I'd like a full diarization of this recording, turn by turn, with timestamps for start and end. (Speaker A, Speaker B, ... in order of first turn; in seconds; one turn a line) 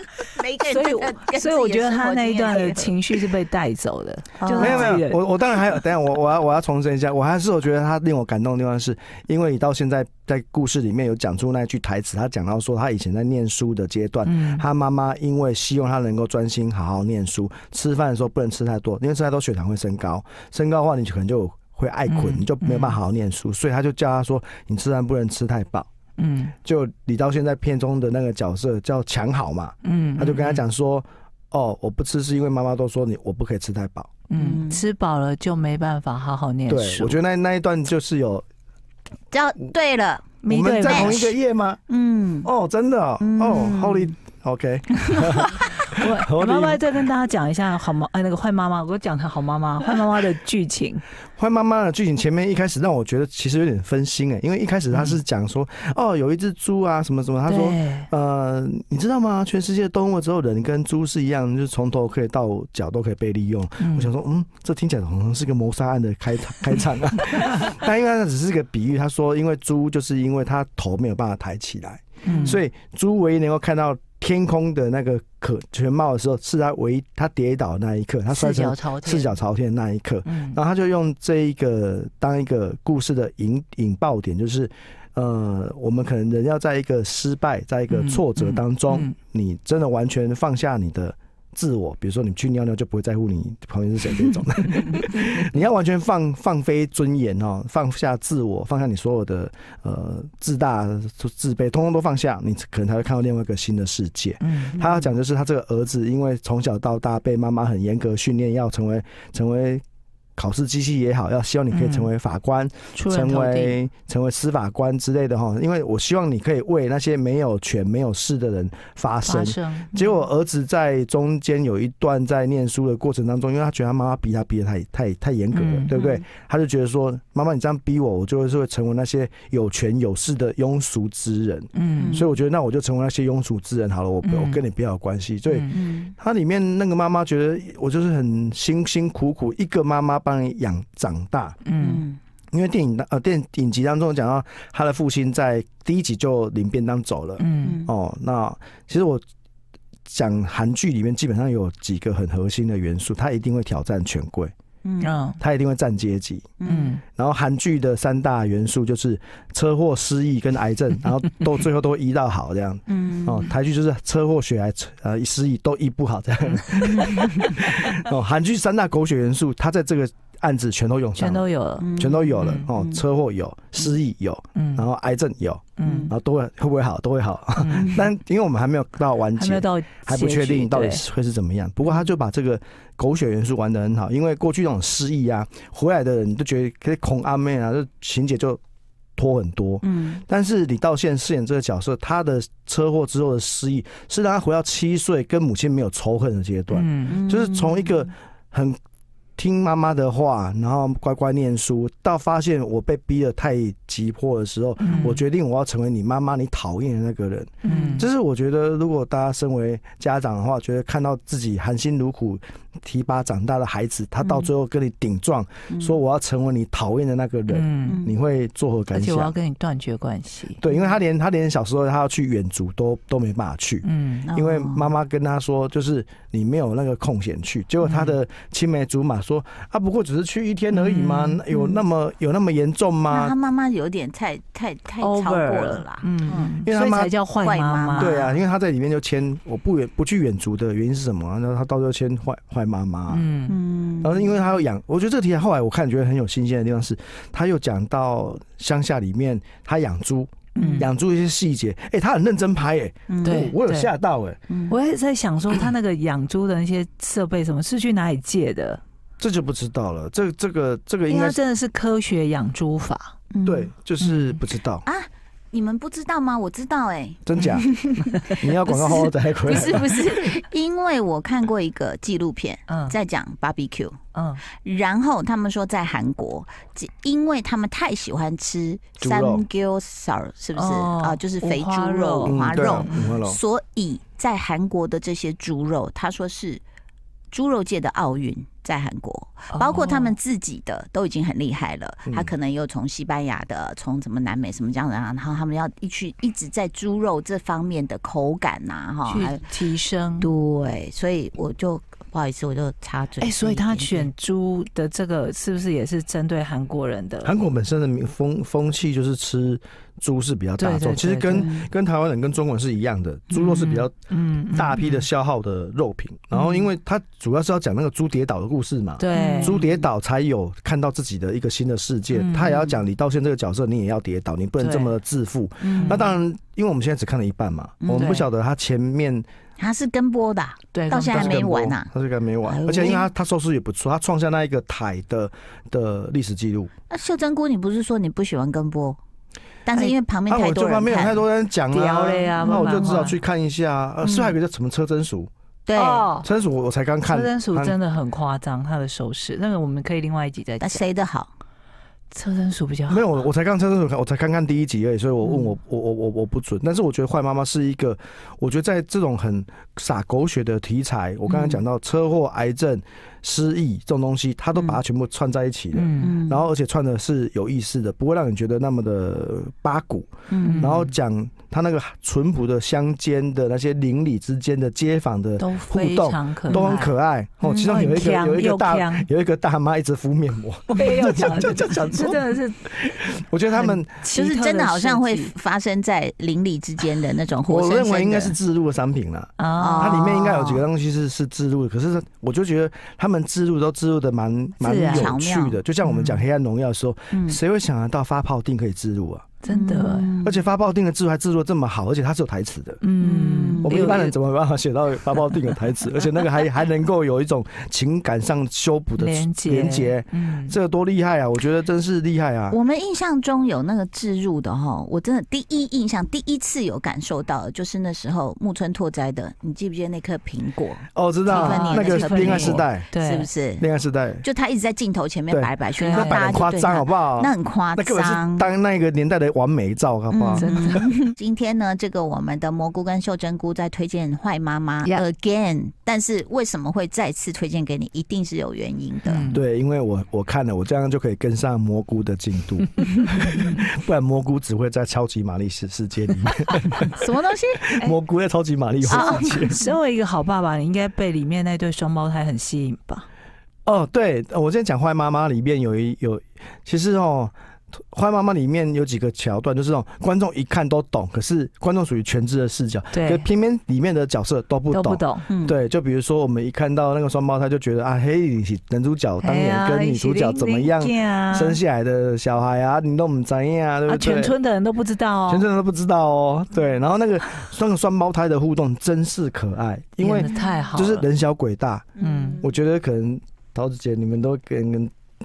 Speaker A: 0.3-3.0
Speaker B: 0.7-5.2
Speaker A: 4.4-5.0
Speaker C: 4.5-25.9
Speaker B: 14.2-14.6
Speaker B: 22.1-23.0
Speaker B: 26.2-26.6
Speaker C: 26.6-34.1
Speaker B: 29.8-30.6
Speaker B: 34.3-37.2
Speaker A: 34.4-34.8
Speaker C: 36.7-38.5
Speaker A: 39.3-41.4
Speaker B: 40.4-41.2
Speaker C: 40.5-41.8
Speaker A: 41.9-42.5
Speaker C: 42.4-46.8
Speaker A: 43.2-44.2
Speaker A: 45.0-46.0
Speaker B: 45.9-51.0
Speaker C: 51.4-109.8
Speaker B: 54.9-55.2
Speaker B: 57.5-58.1
Speaker B: 63.8-64.1
Speaker B: 72.2-72.6
Speaker B: 78.3-79.3
Speaker B: 80.3-80.6
Speaker B: 87.9-89.1
Speaker B: 104.4-105.1
Speaker C: 110.4-141.6
Speaker B: 111.7-112.1
Speaker B: 112.9-113.8
Speaker B: 119.2-120.1
Speaker B: 125.5-125.9
Speaker A: 125.9-126.2
Speaker B: 131.8-132.2
Speaker A: 132.0-132.3
Speaker B: 134.2-134.6
Speaker B: 135.5-135.8
Speaker A: 135.7-136.1
Speaker B: 141.7-142.1
Speaker A: 141.8-142.2
Speaker C: 142.5-149.2
Speaker B: 147.4-147.8
Speaker A: 147.6-147.9
Speaker C: 150.1-154.5
Speaker A: 154.8-155.1
Speaker B: 155.0-155.4
Speaker C: 155.4-156.6
Speaker A: 156.6-157.0
Speaker B: 156.7-157.0
Speaker C: 157.1-188.6
Speaker A: 162.9-163.5
Speaker B: 166.7-167.5
Speaker B: 171.2-171.9
Speaker A: 171.8-173.0
Speaker B: 172.4-172.7
Speaker B: 174.6-174.9
Speaker B: 175.8-176.1
Speaker A: 175.8-176.1
Speaker B: 177.6-178.1
Speaker B: 179.4-181.0
Speaker C: 189.2-198.8
Speaker A: 189.8-190.2
Speaker B: 196.7-197.2
Speaker A: 197.1-197.9
Speaker C: 199.4-219.4
Speaker B: 204.8-205.2
Speaker B: 207.6-208.1
Speaker A: 207.7-208.0
Speaker A: 215.7-216.0
Speaker B: 217.5-218.0
Speaker A: 217.9-218.1
Speaker B: 218.9-220.6
Speaker C: 220.6-233.3
Speaker B: 223.8-224.3
Speaker A: 224.3-224.9
Speaker B: 227.8-228.2
Speaker B: 230.7-231.4
Speaker A: 231.5-231.8
Speaker A: 233.1-236.6
Speaker B: 235.0-238.1
Speaker C: 236.6-237.1
Speaker A: 237.4-238.4
Speaker C: 238.0-243.3
Speaker B: 243.1-243.6
Speaker A: 243.5-244.3
Speaker C: 244.0-254.4
Speaker A: 250.6-250.9
Speaker B: 250.6-250.9
Speaker A: 253.1-253.5
Speaker B: 253.2-253.9
Speaker A: 254.5-254.8
Speaker B: 254.7-258.8
Speaker C: 259.2-261.4
Speaker B: 261.1-263.1
Speaker A: 263.3-263.7
Speaker C: 263.4-264.9
Speaker B: 264.0-264.4
Speaker A: 264.8-286.6
Speaker C: 267.3-267.7
Speaker B: 267.4-268.4
Speaker C: 268.4-269.9
Speaker B: 272.7-272.9
Speaker B: 274.1-274.4
Speaker C: 279.0-279.4
Speaker B: 280.6-283.2
Speaker C: 282.2-283.4
Speaker A: 287.3-299.5
Speaker B: 289.5-290.2
Speaker C: 292.1-292.3
Speaker B: 299.1-300.3
Speaker A: 300.2-304.1
Speaker B: 303.2-307.3
Speaker C: 307.2-313.9
Speaker B: 310.6-311.5
Speaker B: 313.3-315.1
Speaker C: 314.5-329.3
Speaker B: 316.3-316.7
Speaker B: 319.0-319.6
Speaker A: 319.1-319.7
Speaker B: 322.1-322.7
Speaker B: 324.6-325.0
Speaker A: 325.6-326.1
Speaker B: 325.7-326.1
Speaker A: 327.8-328.1
Speaker B: 327.9-328.3
Speaker A: 329.6-331.9
Speaker B: 330.7-331.4
Speaker C: 331.1-336.7
Speaker A: 332.4-333.1
Speaker A: 336.9-339.0
Speaker A: 339.7-341.2
Speaker C: 340.3-345.3
Speaker B: 341.7-343.2
Speaker A: 342.4-342.9
Speaker A: 344.0-344.4
Speaker A: 345.7-346.1
Speaker B: 345.8-346.3
Speaker C: 346.2-347.8
Speaker B: 347.1-350.8
Speaker A: 350.6-351.3
Speaker B: 352.1-353.0
Speaker C: 352.9-384.1
Speaker A: 355.2-355.5
Speaker B: 365.7-366.2
Speaker A: 366.0-366.5
Speaker A: 370.3-370.7
Speaker B: 370.4-370.9
Speaker B: 375.4-379.1
Speaker B: 380.7-382.7
Speaker B: 383.5-385.3
Speaker A: 384.1-388.4
Speaker C: 387.5-399.3
Speaker B: 389.4-389.9
Speaker A: 389.6-390.6
Speaker B: 394.6-395.1
Speaker A: 394.9-395.6
Speaker B: 395.8-396.2
Speaker A: 397.1-397.4
Speaker B: 399.4-400.1
Speaker A: 399.5-400.4
Speaker C: 400.2-402.8
Speaker B: 402.8-404.1
Speaker A: 403.0-404.0
Speaker C: 403.6-412.6
Speaker B: 409.0-410.6
Speaker A: 412.5-423.7
Speaker C: 420.9-422.9
Speaker B: 421.3-423.3
Speaker C: 423.6-424.2
Speaker A: 424.2-428.5
Speaker C: 425.3-430.6
Speaker B: 425.8-426.4
Speaker A: 430.1-439.3
Speaker B: 430.3-430.9
Speaker B: 439.1-439.4
Speaker C: 439.3-447.1
Speaker A: 447.0-447.8
Speaker C: 447.7-449.6
Speaker B: 448.9-453.1
Speaker A: 448.9-449.7
Speaker C: 453.7-474.4
Speaker B: 462.9-463.3
Speaker B: 464.7-465.3
Speaker A: 465.3-465.6
Speaker B: 469.2-471.6
Speaker B: 473.9-475.4
Speaker C: 475.3-484.9
Speaker B: 480.0-481.1
Speaker A: 480.3-480.6
Speaker A: 482.0-482.4
Speaker B: 482.0-482.5